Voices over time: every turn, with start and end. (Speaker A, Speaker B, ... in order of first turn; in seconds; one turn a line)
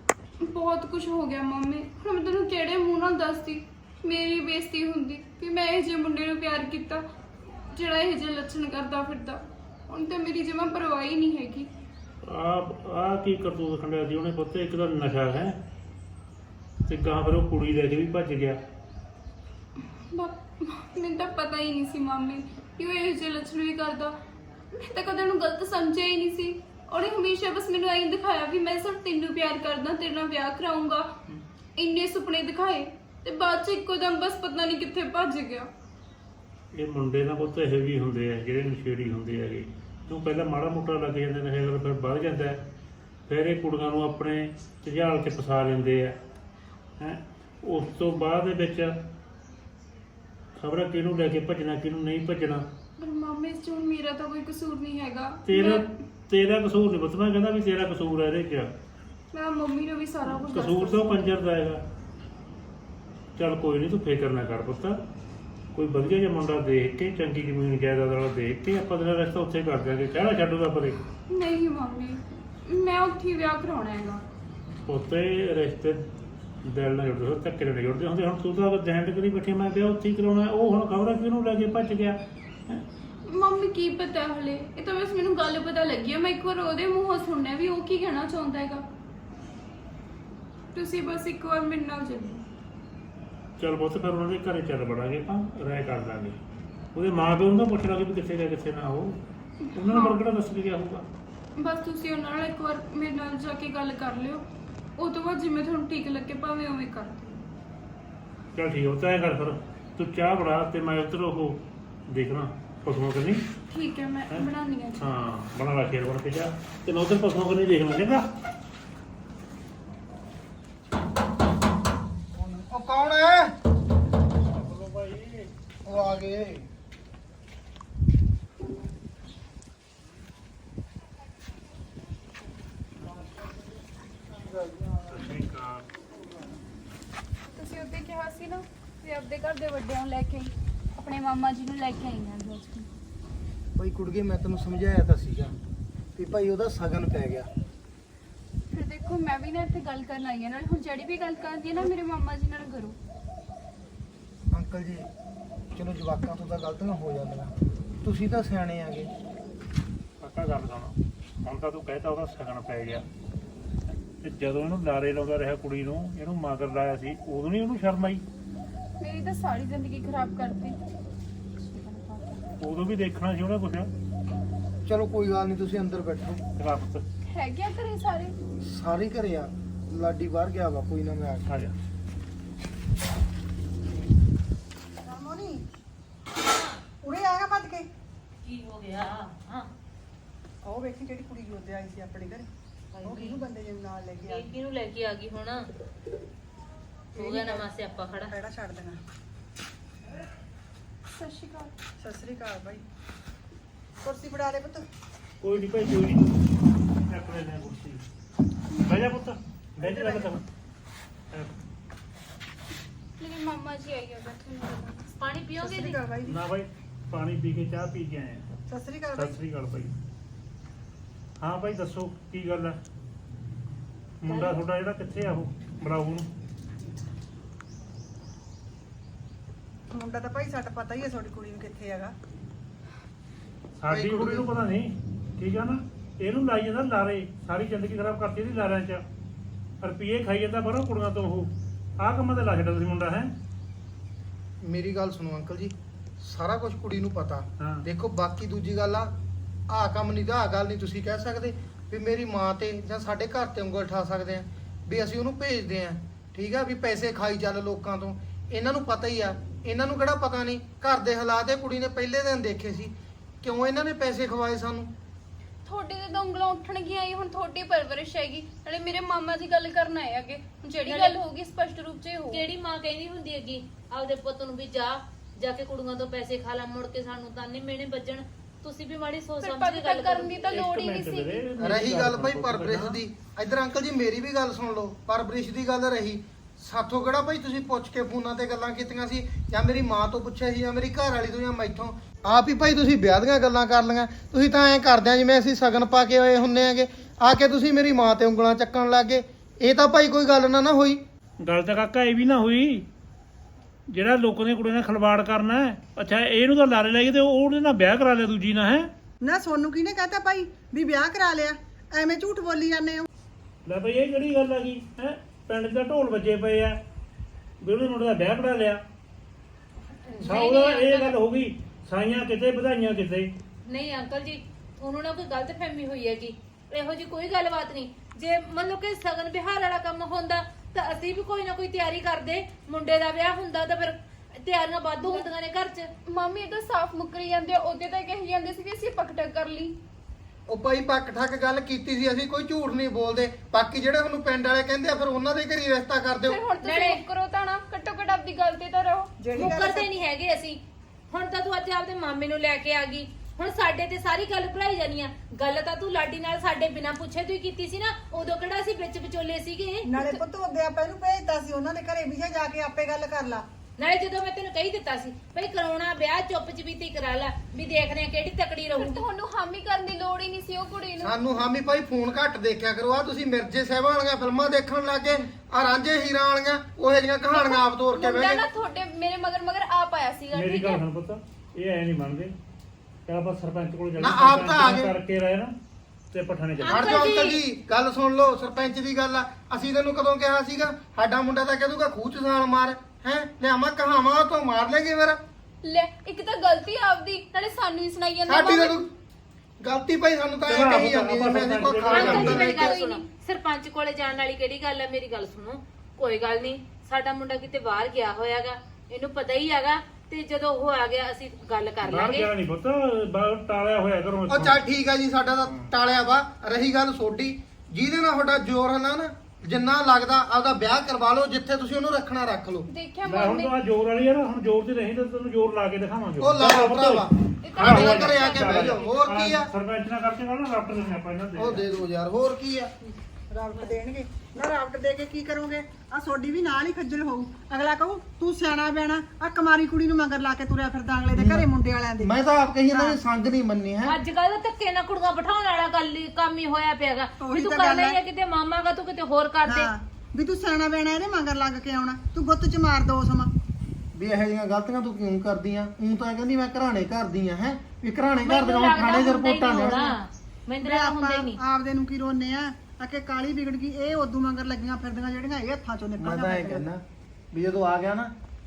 Speaker A: 0.4-7.0
Speaker A: 7.7-11.7
Speaker B: 12.2-15.6
Speaker B: 16.9-18.6
Speaker A: 20.0-24.2
Speaker A: 24.7-31.1
Speaker A: 31.8-35.7
Speaker B: 36.7-42.6
Speaker B: 43.3-46.2
Speaker B: 47.0-49.0
Speaker B: 50.6-52.6
Speaker A: 53.0-55.9
Speaker B: 55.5-58.7
Speaker A: 59.3-61.4
Speaker B: 60.5-61.8
Speaker B: 63.4-65.0
Speaker B: 65.7-71.0
Speaker A: 71.3-74.2
Speaker B: 74.8-76.0
Speaker B: 76.6-82.8
Speaker A: 83.3-88.8
Speaker A: 90.7-92.4
Speaker B: 93.6-96.4
Speaker B: 96.9-99.2
Speaker A: 99.7-100.2
Speaker B: 99.8-101.0
Speaker A: 101.6-104.4
Speaker A: 105.0-107.4
Speaker B: 108.5-113.4
Speaker A: 113.7-115.1
Speaker B: 115.0-118.3
Speaker C: 122.4-123.5
Speaker B: 124.4-125.5
Speaker C: 125.8-126.7
Speaker C: 134.3-135.0
Speaker B: 135.1-135.9
Speaker A: 137.6-142.9
Speaker C: 143.8-145.5
Speaker C: 146.2-147.5
Speaker A: 148.7-153.0
Speaker C: 154.5-155.1
Speaker C: 155.7-159.1
Speaker B: 160.2-163.1
Speaker B: 164.1-168.2
Speaker A: 169.0-170.8
Speaker A: 171.6-172.4
Speaker B: 172.6-173.9
Speaker C: 174.8-176.4
Speaker B: 176.6-177.1
Speaker A: 177.3-178.4
Speaker C: 178.6-181.5
Speaker B: 181.4-181.8
Speaker D: 185.0-185.7
Speaker D: 187.0-187.9
Speaker E: 188.4-189.7
Speaker D: 190.6-192.5
Speaker E: 192.9-193.4
Speaker D: 193.1-194.5
Speaker E: 194.3-195.7
Speaker D: 197.2-199.0
Speaker E: 197.2-198.3
Speaker A: 201.1-201.7
Speaker D: 202.0-202.8
Speaker D: 204.0-204.9
Speaker B: 205.4-206.3
Speaker B: 207.1-208.0
Speaker A: 208.8-209.0
Speaker B: 208.8-210.4
Speaker D: 209.8-210.4
Speaker A: 213.2-215.1
Speaker E: 215.2-216.1
Speaker D: 215.6-216.4
Speaker B: 216.2-218.4
Speaker D: 218.7-219.4
Speaker B: 219.2-219.9
Speaker B: 221.4-222.8
Speaker B: 224.2-226.3
Speaker D: 224.3-224.6
Speaker D: 229.9-232.2
Speaker B: 233.8-239.0
Speaker C: 233.9-234.4
Speaker B: 239.8-243.3
Speaker C: 244.6-249.1
Speaker C: 249.7-264.9
Speaker A: 265.6-272.4
Speaker E: 270.9-271.2
Speaker E: 272.3-280.4
Speaker A: 279.4-281.5
Speaker B: 280.5-283.0
Speaker C: 281.6-301.0
Speaker B: 301.4-302.9
Speaker B: 303.9-308.9
Speaker D: 309.2-313.1
Speaker B: 313.6-316.8
Speaker B: 317.6-318.8
Speaker E: 320.1-321.2
Speaker B: 320.2-323.3
Speaker E: 323.7-335.9
Speaker A: 335.0-335.3
Speaker A: 336.1-339.8
Speaker C: 340.5-346.4
Speaker A: 346.3-349.6
Speaker E: 346.6-347.0
Speaker D: 349.2-349.9
Speaker E: 349.4-360.2
Speaker D: 359.9-363.4
Speaker E: 363.8-369.0
Speaker A: 368.7-371.3
Speaker C: 371.0-378.4
Speaker A: 377.2-380.8
Speaker B: 380.3-382.4
Speaker B: 383.1-385.5
Speaker C: 384.0-384.9
Speaker B: 386.1-387.0
Speaker E: 386.6-387.4
Speaker C: 386.7-395.2
Speaker A: 395.6-398.9
Speaker C: 398.3-398.9
Speaker C: 399.6-402.7
Speaker B: 400.5-402.5
Speaker E: 401.8-412.3
Speaker A: 401.9-403.1
Speaker B: 411.8-414.6
Speaker C: 414.3-422.7
Speaker A: 422.7-423.5
Speaker B: 423.1-431.7
Speaker C: 426.2-429.5
Speaker A: 427.4-428.9
Speaker C: 431.4-432.7
Speaker D: 433.3-442.1
Speaker C: 441.2-441.5
Speaker C: 442.0-444.0
Speaker D: 442.7-443.0
Speaker E: 443.9-449.7
Speaker D: 447.2-448.0
Speaker D: 449.4-453.3
Speaker C: 453.9-459.9
Speaker E: 458.2-461.4
Speaker D: 459.6-459.9
Speaker D: 460.6-466.7
Speaker C: 466.0-468.1